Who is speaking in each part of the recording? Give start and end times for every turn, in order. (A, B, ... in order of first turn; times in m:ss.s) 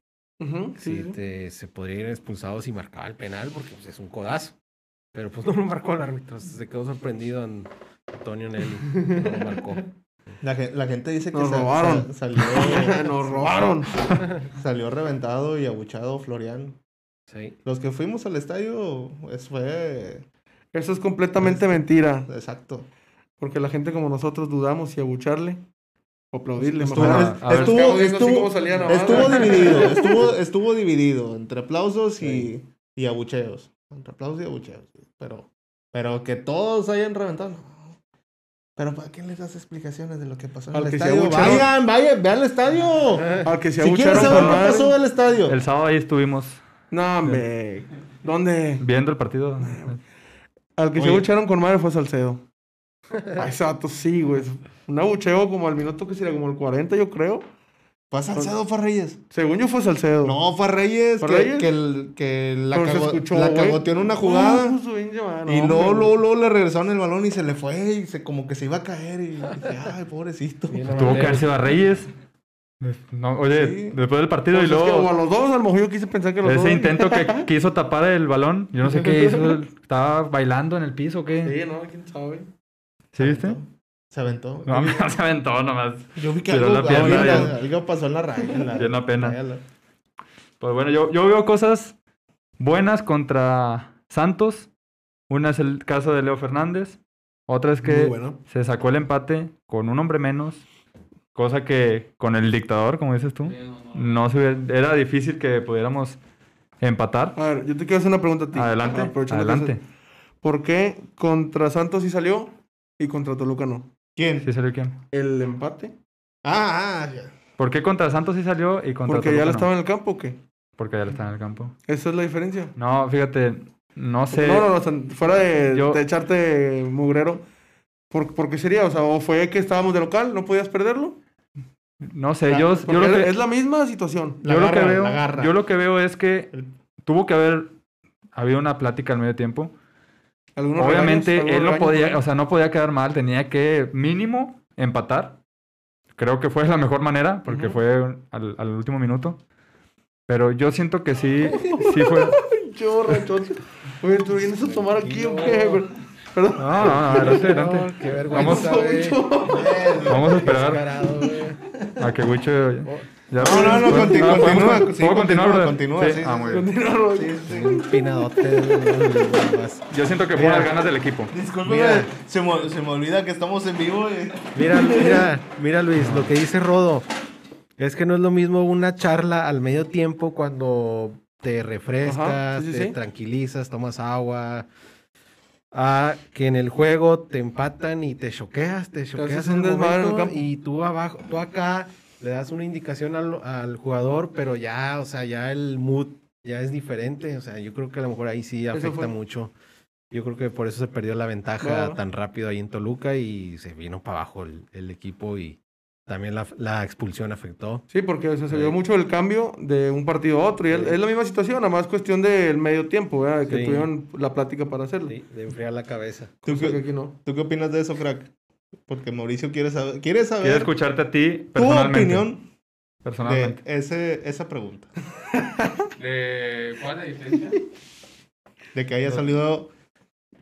0:00.4-0:01.2 A
0:00.8-0:04.6 B
0:05.1-0:09.9 B
0:08.9-0:09.4 A
0:10.4-0:13.7 C
0:11.3-0:14.3 A
0:14.5-0:16.8 C
0:17.3-0:17.6 B
0:17.6-0:20.3 C
0:20.7-0:22.3 A
0:21.4-0:22.9 C
0:23.4-0:25.6 A
0:26.3-0:30.3 A
0:26.6-0:38.0 C
0:26.9-0:27.8 D
0:28.7-0:29.1 B
0:32.2-0:32.5 B
0:38.8-0:45.6 C
0:40.7-0:41.7 A
0:43.4-0:45.0 A
0:44.1-0:44.7 D
0:45.5-0:46.6 D
0:46.9-0:48.8 A
0:48.8-0:50.0 D
0:49.6-0:50.0 A
0:50.8-0:52.4 A
0:51.0-0:51.3 C
0:53.4-0:57.5 A
0:58.1-0:59.2 C
0:59.3-1:00.4 A
1:00.2-1:04.8 C
1:01.2-1:01.7 A
1:02.7-1:06.1 A
1:05.5-1:11.4 C
1:10.7-1:11.5 B
1:10.9-1:12.1 D
1:12.8-1:15.1 D
1:13.5-1:14.0 C
1:14.5-1:17.5 A
1:16.4-1:21.6 D
1:18.9-1:19.6 A
1:21.4-1:22.5 A
1:23.1-1:23.6 D
1:23.2-1:25.1 C
1:24.7-1:27.6 D
1:26.2-1:29.6 C
1:26.9-1:27.4 A
1:28.8-1:29.4 D
1:30.6-1:32.0 D
1:32.6-1:34.7 D
1:35.3-1:40.6 D
1:37.8-1:38.4 A
1:41.4-1:46.2 D
1:43.4-1:44.3 E
1:46.8-1:47.4 D
1:47.4-1:49.8 A
1:48.5-1:49.8 D
1:50.4-1:53.9 A
1:54.2-1:54.5 C
1:54.4-1:55.0 D
1:55.1-1:55.9 A
1:56.4-1:57.3 C
1:57.6-1:59.7 D
1:59.1-2:00.4 A
2:00.8-2:01.7 D
2:01.9-2:02.8 A
2:02.8-2:04.7 D
2:04.3-2:07.4 A
2:05.7-2:06.0 D
2:08.1-2:11.2 A
2:12.0-2:13.3 D
2:12.5-2:14.4 A
2:14.4-2:15.6 C
2:14.4-2:16.5 D
2:17.0-2:17.7 D
2:18.4-2:19.7 D
2:20.6-2:22.2 A
2:20.8-2:25.4 D
2:26.2-2:29.4 D
2:27.5-2:27.8 A
2:30.3-2:32.4 D
2:31.5-2:37.5 A
2:34.5-2:35.8 B
2:36.6-2:38.8 D
2:36.8-2:39.4 B
2:38.3-2:40.1 A
2:39.5-2:40.5 C
2:40.1-2:40.8 D
2:40.2-2:41.6 B
2:42.0-2:46.7 D
2:42.8-2:43.1 B
2:43.4-2:47.8 C
2:46.5-2:49.4 A
2:47.5-2:50.7 B
2:49.9-2:51.3 D
2:51.3-2:55.2 C
2:51.6-2:52.1 B
2:54.5-2:57.1 B
2:56.0-2:56.3 D
2:57.8-3:04.7 B
3:02.0-3:03.0 A
3:05.7-3:19.5 B
3:09.1-3:10.4 A
3:18.7-3:19.1 A
3:20.1-3:27.9 B
3:21.6-3:22.0 A
3:27.9-3:35.2 A
3:28.5-3:28.8 B
3:30.7-3:31.0 B
3:33.5-3:33.9 B
3:35.1-3:36.4 B
3:36.4-3:38.3 C
3:36.5-3:37.2 A
3:38.9-3:40.7 C
3:40.4-3:42.3 D
3:41.6-3:42.5 C
3:43.0-3:43.6 D
3:43.2-3:44.9 C
3:46.0-3:47.6 E
3:48.8-3:49.7 C